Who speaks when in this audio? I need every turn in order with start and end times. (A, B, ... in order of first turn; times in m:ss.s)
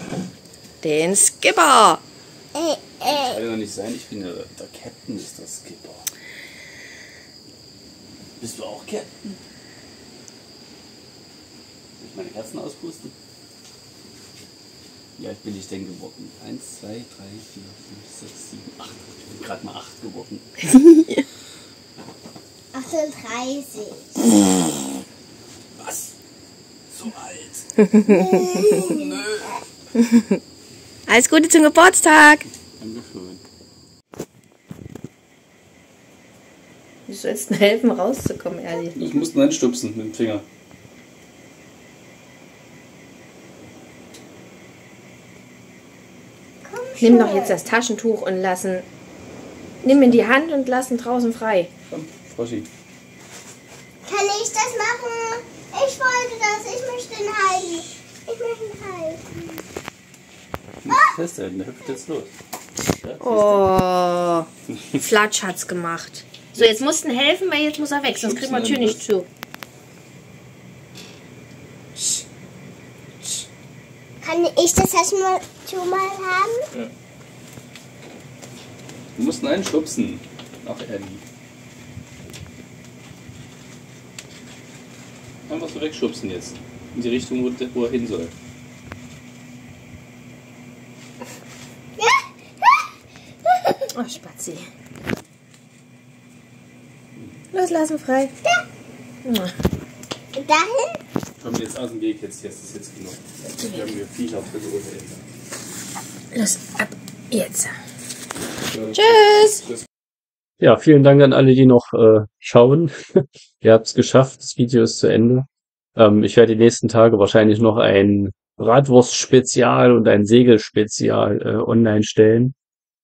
0:00.8-0:02.0 A
0:02.5-0:03.4 B
0:03.0-0:06.0 C
0:08.4-0:09.4 C
0:12.0-0:13.1 C
0:15.2-0:20.5 C
0:20.8-0:21.2 A
0:22.7-0:24.1 B
0:25.8-0:26.1 C
0:26.9-0:27.6 C
0:27.8-0:28.8 A
0:28.0-0:29.1 B
0:28.7-0:29.5 C
0:31.1-0:32.4 A
0:32.8-0:33.4 C
0:37.1-0:39.0 A
0:38.9-0:40.4 C
0:46.6-0:47.6 B
0:47.0-0:48.8 A
0:49.8-0:51.7 A
0:51.9-0:52.7 C
0:54.0-0:59.6 B
1:00.8-1:02.3 C
1:03.0-1:03.7 C
1:03.2-1:04.5 A
1:05.0-1:09.3 A
1:08.1-1:09.0 C
1:14.2-1:16.7 B
1:19.2-1:21.2 C
1:25.5-1:28.3 C
1:32.0-1:32.8 B
1:33.9-1:34.7 A
1:37.5-1:38.3 A
1:39.2-1:39.5 A
1:40.3-1:41.0 B
1:41.4-1:45.2 C
1:46.3-1:47.7 A
1:48.9-1:49.6 A
1:50.6-2:02.5 C